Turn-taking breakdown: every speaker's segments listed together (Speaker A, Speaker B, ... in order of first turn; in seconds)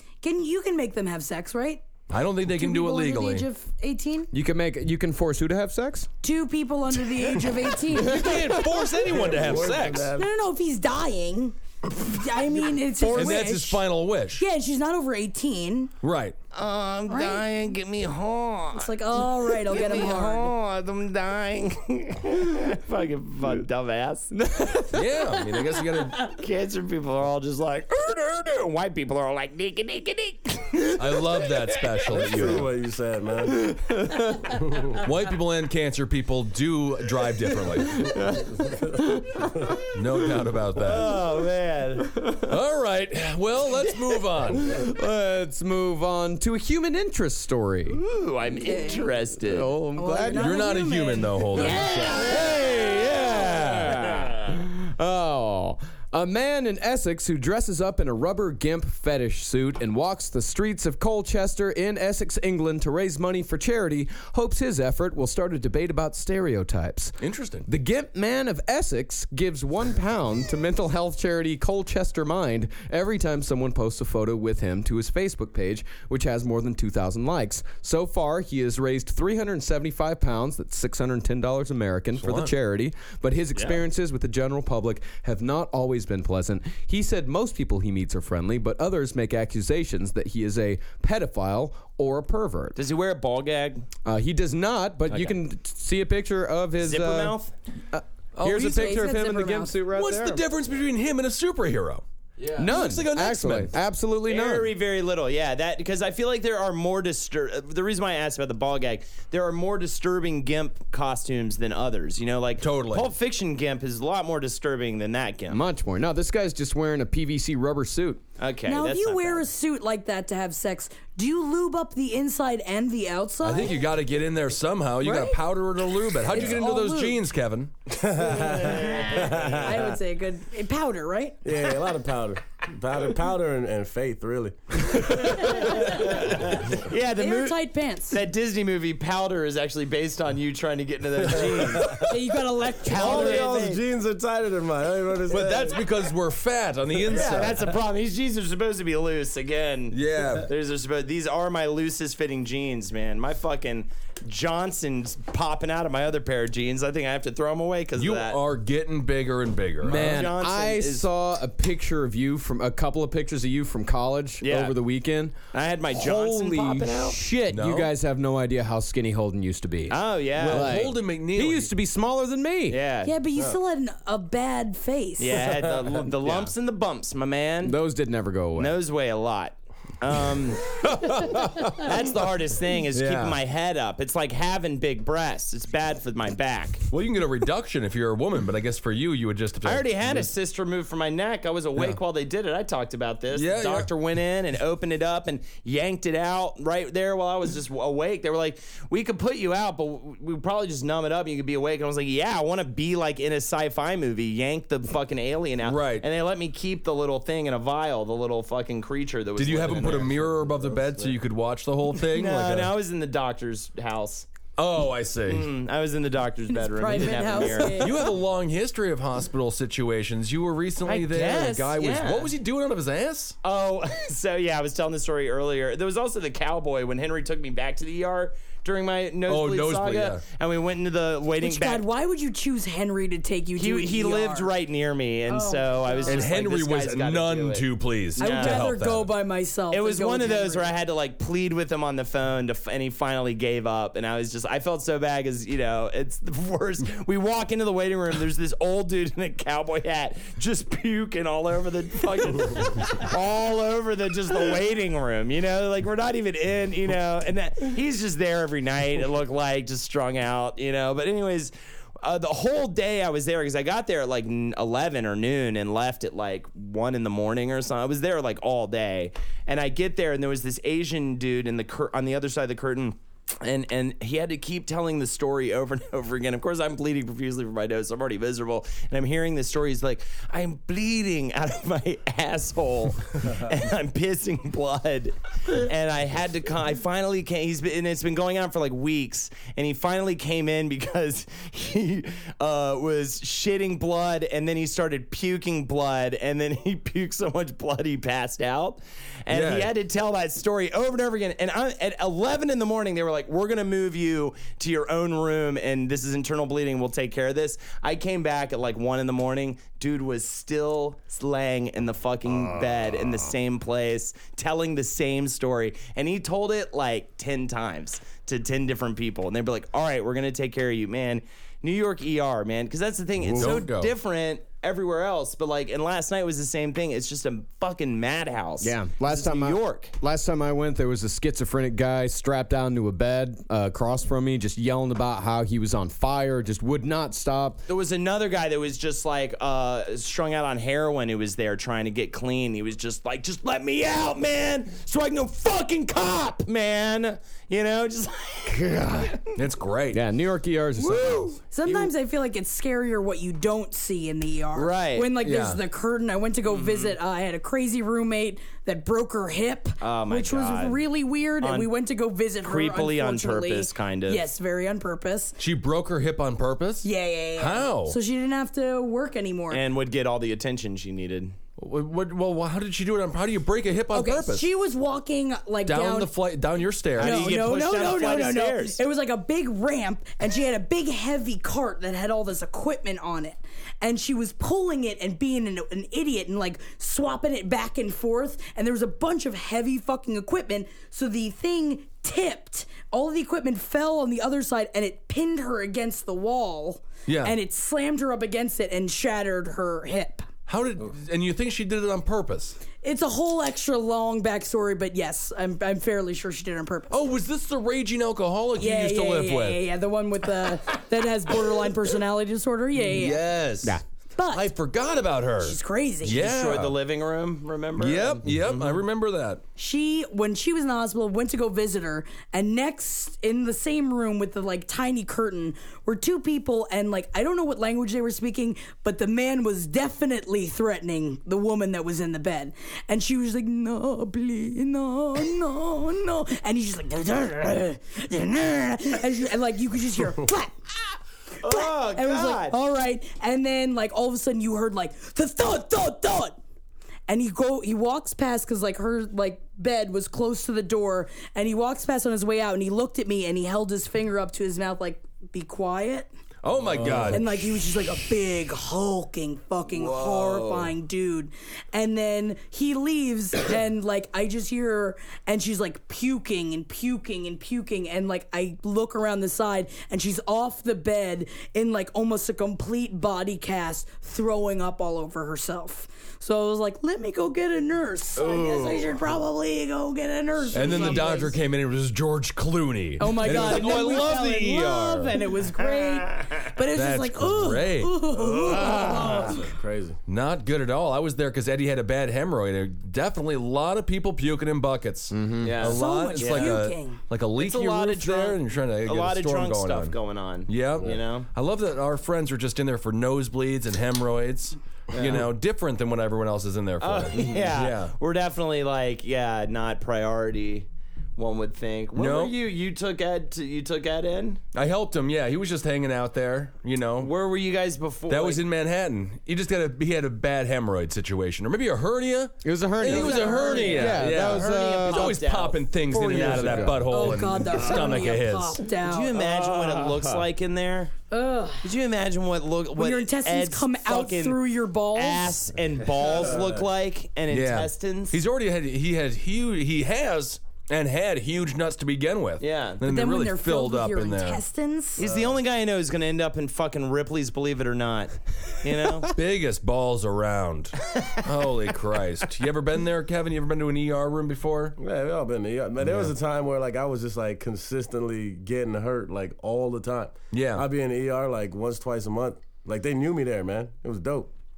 Speaker A: 0.2-1.8, 2.4-4.3, 6.2-8.6, 10.2-15.9, 17.1-17.4, 18.7-20.5, 48.6-49.1, 50.0-52.5, 98.5-99.8, 118.7-123.8, 125.0-125.4, 126.2-127.2, 128.2-131.4, 135.5-136.3, 137.0-138.2, 142.0-143.5, 173.0-175.4, 216.5-218.2, 231.4-234.5, 235.3-236.3, 238.2-240.7, 350.9-365.4, 366.8-369.6, 373.9-376.1, 377.0-400.2, 402.8-407.0, 408.6-413.3, 414.1-414.5, 415.4-416.2, 419.6-440.5, 441.4-446.4, 447.1-456.1, 457.0-481.4, 483.0-489.5, 495.6-497.0, 522.8-524.1, 526.8-529.1, 531.1-531.7, 532.8-535.4, 542.8-545.0
Speaker B: 2.1-3.5, 7.9-10.1, 13.1-14.4, 16.0-16.4, 24.9-26.2, 30.9-32.7, 35.0-38.1, 39.9-41.1, 42.4-44.7, 50.3-54.1, 67.2-67.7, 82.2-82.5, 98.3-99.0, 99.9-103.7, 112.6-113.1, 123.4-127.7, 145.3-147.6, 149.9-150.5, 157.9-160.2, 167.5-167.9, 170.3-171.7, 180.8-181.8, 182.9-183.4, 186.9-190.3, 193.3-193.9, 205.6-206.1, 209.3-212.7, 214.6-215.5, 217.7-223.4, 229.3-230.2, 236.0-239.1, 299.3-299.7, 323.3-323.9, 349.4-350.0, 355.2-355.6, 365.4-368.0, 371.6-374.5, 375.6-377.3, 397.1-397.4, 400.5-402.6, 406.9-409.6, 412.8-416.8, 417.8-419.4, 456.4-457.5, 460.0-460.6, 478.2-478.8, 480.5-485.2, 486.7-488.1, 490.1-499.9, 500.5-507.9, 511.9-512.3, 514.5-517.1, 518.1-528.6, 537.3-544.4, 549.1-554.8, 555.8-556.1, 560.3-560.6
Speaker C: 4.3-6.1, 24.4-25.0, 33.7-34.5, 38.0-39.5, 44.6-48.0, 49.4-50.6, 51.6-52.5, 54.5-92.8, 94.0-97.3, 97.9-100.4, 102.4-104.7, 115.5-118.2, 159.8-165.4, 165.9-172.8, 177.6-178.8, 181.3-181.6, 328.6-337.7, 348.5-349.1, 349.9-351.3, 495.1-495.6, 522.4-525.2, 525.9-527.0, 529.4-530.2
Speaker D: 9.0-10.3, 32.1-33.7, 34.6-35.0, 127.9-129.9, 131.4-136.6, 141.3-142.1, 142.9-145.8, 175.6-175.9, 488.4-490.0, 545.0-545.3, 554.8-564.3
Speaker E: 16.5-24.3, 26.3-31.9, 40.8-42.1, 47.9-49.7, 52.1-54.5, 83.5-83.8, 92.8-93.8, 96.8-97.5, 104.2-115.6, 118.4-119.5, 128.3-129.9, 135.2-137.6, 138.1-142.1, 142.8-143.8, 147.1-158.4, 159.9-161.1, 164.4-164.8, 165.5-167.2, 169.9-170.8, 172.7-173.1, 175.2-177.8, 178.6-180.8, 181.7-186.8, 189.6-210.2, 212.0-214.3, 215.3-218.0, 220.8-222.3, 223.4-231.8, 233.6-238.7, 239.7-329.9, 337.7-349.4, 350.9-351.2, 354.5-355.1, 356.5-356.9, 359.8-360.8, 361.4-361.7, 362.4-364.2, 369.5-371.3, 377.0-378.8, 416.1-418.8, 441.4-442.6, 478.3-478.7, 480.5-481.1, 483.3-484.1, 485.9-486.3, 488.2-489.4, 495.4-496.6, 497.4-501.3, 504.9-505.3, 506.8-514.4, 517.0-518.4, 522.9-526.6, 528.8-530.9, 531.6-534.4, 534.9-538.2, 542.4-542.8, 545.0-549.1